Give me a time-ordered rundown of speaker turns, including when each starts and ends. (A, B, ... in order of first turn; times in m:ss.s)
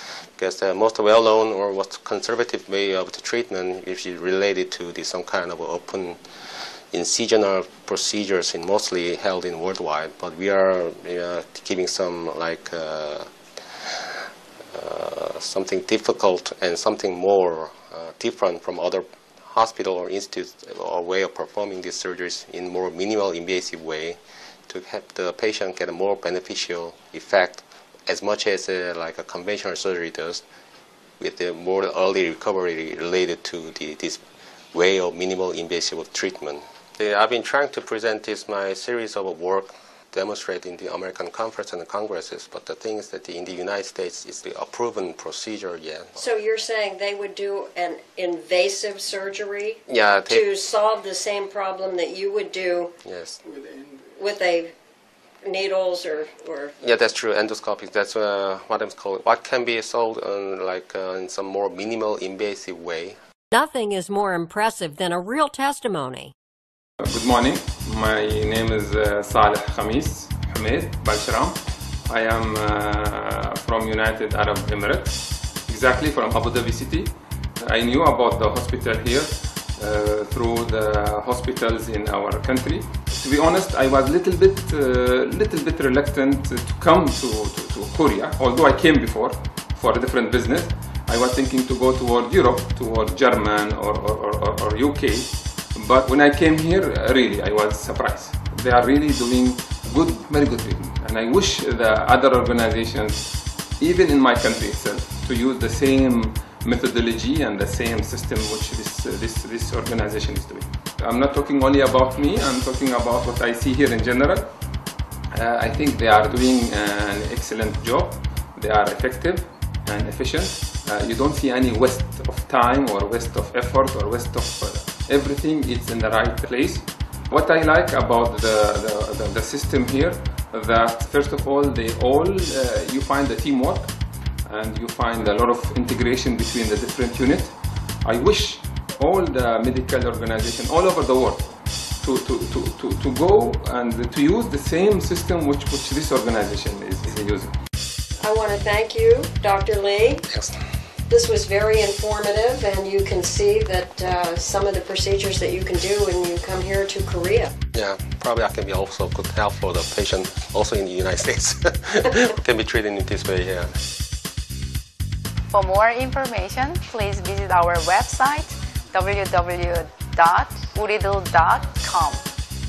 0:00.4-0:06.2 A
0:06.9-0:13.3 A
0:14.7-0:30.4 A
0:31.2-0:34.2 A
0:34.7-0:46.2 A
0:46.2-0:52.9 B
0:49.9-0:50.4 A
0:53.0-0:53.4 A
0:53.8-0:54.7 B
0:55.4-0:56.7 B
0:56.8-1:03.2 A
1:03.5-1:06.3 C
1:07.0-1:54.5 D
1:55.3-2:13.9 D
2:14.4-2:21.4 D
2:22.0-2:27.5 D
2:28.2-2:30.2 B
2:31.1-2:37.5 B
2:37.7-2:43.7 A
2:45.5-2:52.2 E